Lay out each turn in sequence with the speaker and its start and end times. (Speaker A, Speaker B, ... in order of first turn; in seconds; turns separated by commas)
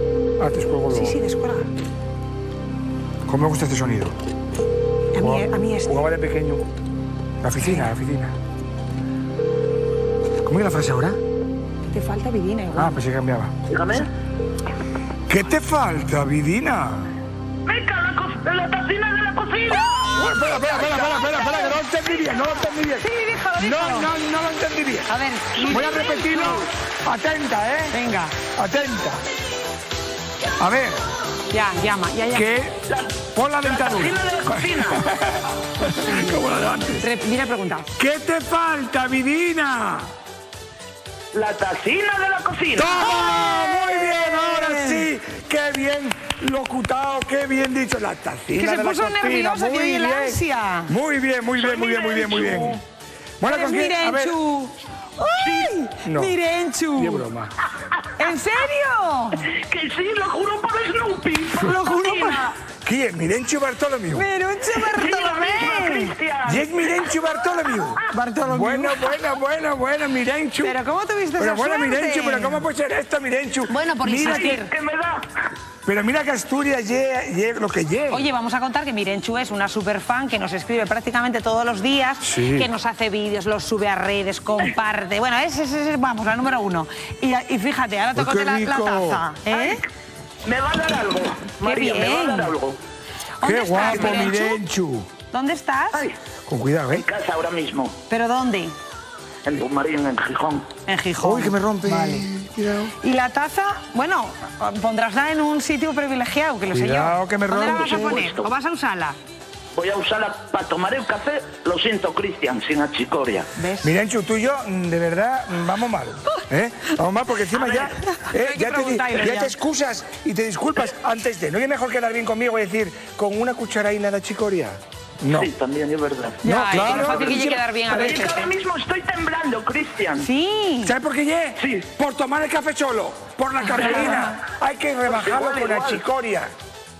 Speaker A: 0.4-1.2, Speaker B: 0.9-1.7, Speaker A: 3.2-4.1, Speaker B: 5.1-6.0, Speaker A: 5.2-6.6, Speaker A: 7.4-8.3, Speaker B: 7.6-7.9, Speaker A: 10.4-11.2, Speaker B: 11.8-13.0, Speaker A: 12.7-13.5, Speaker C: 13.7-14.1, Speaker A: 15.3-17.1, Speaker C: 17.6-22.4, Speaker A: 20.1-25.1, Speaker B: 23.0-24.1, Speaker B: 25.1-26.2, Speaker C: 25.5-26.7, Speaker A: 25.7-27.9, Speaker B: 27.9-28.3, Speaker A: 28.6-29.2, Speaker A: 30.6-31.0, Speaker B: 31.5-32.6, Speaker A: 32.3-32.8, Speaker C: 32.9-35.1, Speaker A: 33.3-37.1, Speaker B: 36.0-36.4, Speaker B: 37.0-38.0, Speaker A: 38.0-40.1, Speaker C: 41.3-43.0, Speaker A: 42.8-52.8, Speaker B: 42.9-45.1, Speaker B: 48.5-50.9, Speaker C: 51.6-52.8, Speaker A: 53.4-54.4, Speaker B: 53.4-57.2, Speaker C: 55.4-55.8, Speaker A: 56.0-56.4, Speaker A: 56.9-57.5, Speaker B: 58.1-59.5, Speaker C: 59.4-62.5, Speaker B: 61.6-62.5, Speaker A: 62.8-64.3, Speaker B: 64.1-66.1, Speaker C: 64.7-68.0, Speaker A: 66.4-70.8, Speaker B: 68.1-69.2, Speaker B: 70.6-72.7, Speaker A: 71.4-74.6, Speaker B: 73.7-74.7, Speaker C: 74.1-75.3, Speaker A: 75.8-78.3, Speaker B: 78.1-89.8, Speaker A: 82.2-82.7, Speaker A: 88.1-89.2, Speaker C: 89.5-89.9, Speaker C: 90.4-92.8, Speaker B: 91.6-92.5, Speaker B: 93.4-94.6, Speaker A: 93.4-95.1, Speaker C: 93.8-94.4, Speaker B: 95.3-96.1, Speaker A: 96.5-97.0, Speaker C: 96.9-98.0, Speaker B: 98.1-98.7, Speaker C: 99.4-100.7, Speaker B: 100.8-102.3, Speaker A: 101.2-102.9, Speaker B: 102.9-109.2, Speaker A: 106.7-108.2, Speaker C: 107.6-108.5, Speaker C: 109.7-113.5, Speaker B: 113.5-113.9, Speaker A: 113.8-125.5, Speaker C: 117.5-117.9, Speaker B: 118.2-119.5, Speaker C: 125.3-130.3, Speaker B: 126.4-128.5, Speaker A: 126.4-127.5, Speaker B: 130.2-130.9, Speaker A: 130.8-136.5, Speaker C: 131.6-131.8, Speaker B: 133.7-134.3, Speaker C: 133.7-134.3, Speaker C: 135.1-136.0